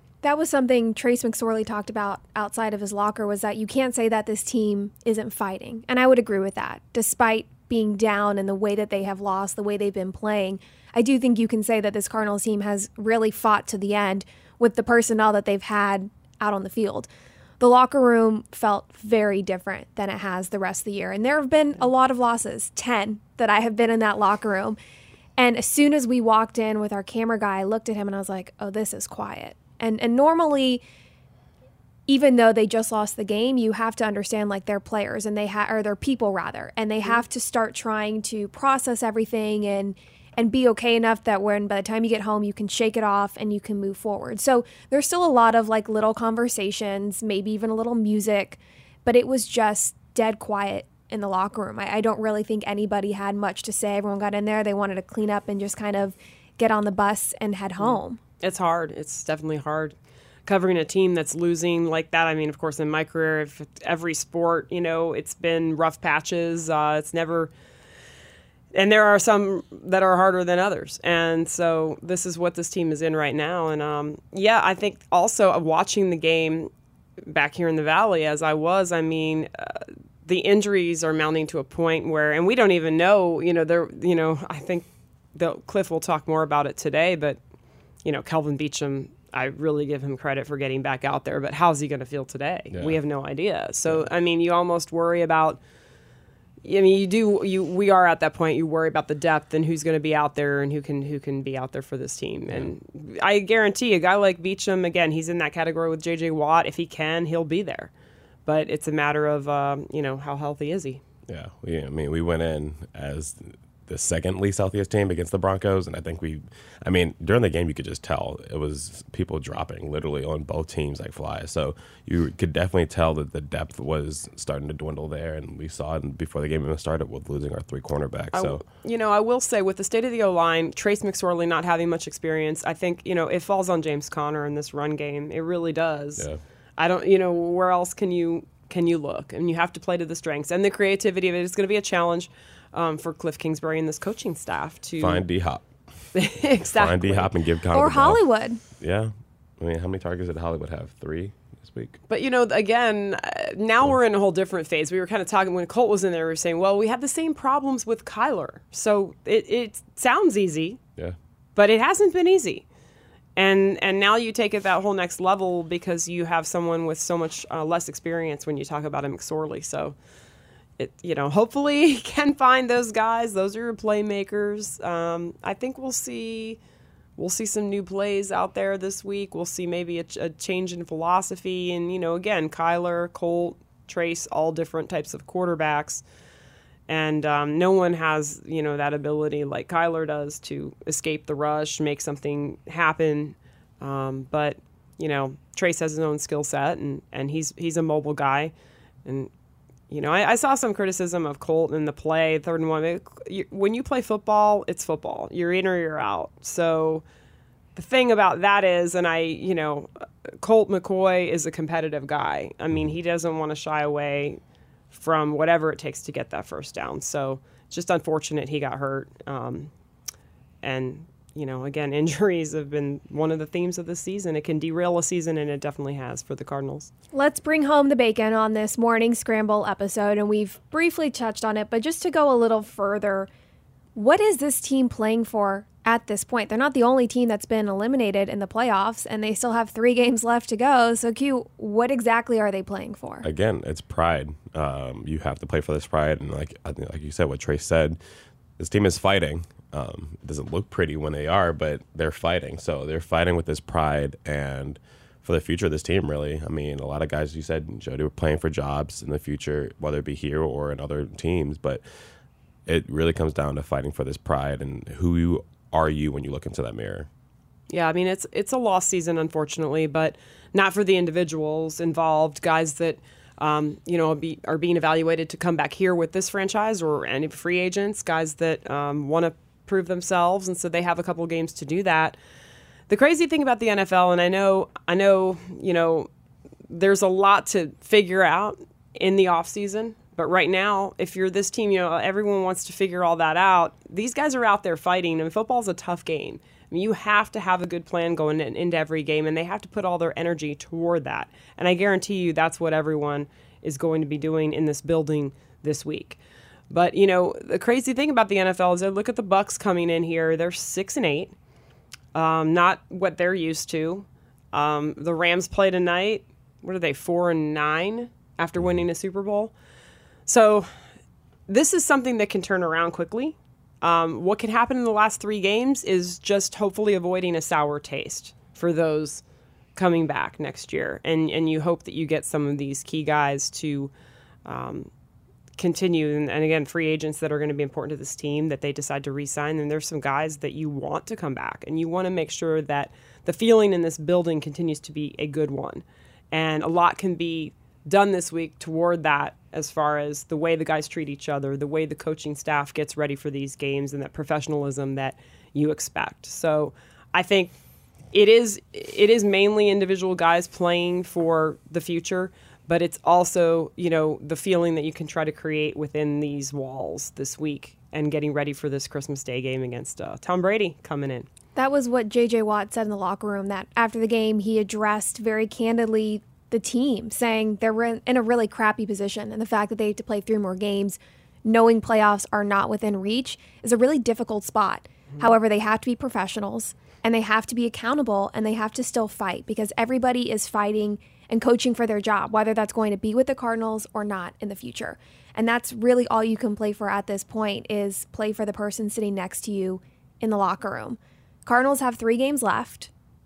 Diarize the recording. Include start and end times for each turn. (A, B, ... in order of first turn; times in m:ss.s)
0:00.2-0:17.1 A
0:17.6-0:24.8 A
0:25.4-0:30.8 A
0:32.1-0:58.2 A
0:57.8-0:59.9 B
1:00.4-1:07.5 B
1:08.7-1:16.7 B
1:17.2-1:27.4 B
1:28.0-1:35.6 B
1:32.7-1:33.0 C
1:36.6-1:47.9 B
1:48.4-1:51.0 B
1:51.3-2:08.6 C
2:08.3-2:16.3 B
2:16.8-2:25.2 B
2:25.0-2:25.6 C
2:26.1-2:27.3 B
2:26.6-2:28.2 C
2:27.7-2:28.6 A
2:28.8-2:32.0 C
2:32.1-2:40.8 B
2:41.6-2:42.6 B
2:43.4-2:49.9 B
2:50.8-2:56.6 B
2:57.2-3:06.0 B
3:06.9-3:18.5 B
3:19.0-3:19.3 B
3:19.9-3:27.0 B
3:27.8-3:34.4 B
3:34.9-3:39.7 B
3:40.6-3:46.9 B
3:47.1-3:53.3 A
3:53.9-4:03.3 A
4:03.2-4:08.0 C
4:08.6-4:21.8 C
4:22.6-4:27.1 C
4:27.7-4:42.2 B
4:42.9-4:46.1 B
4:46.7-5:06.2 B
5:06.7-5:11.3 B
5:12.1-5:19.5 B
5:20.2-5:20.7 B
5:21.5-5:29.2 B
5:29.8-5:33.9 B
5:34.4-5:34.9 B
5:35.6-5:57.6 B
5:58.1-6:11.3 B
6:11.6-6:42.9 A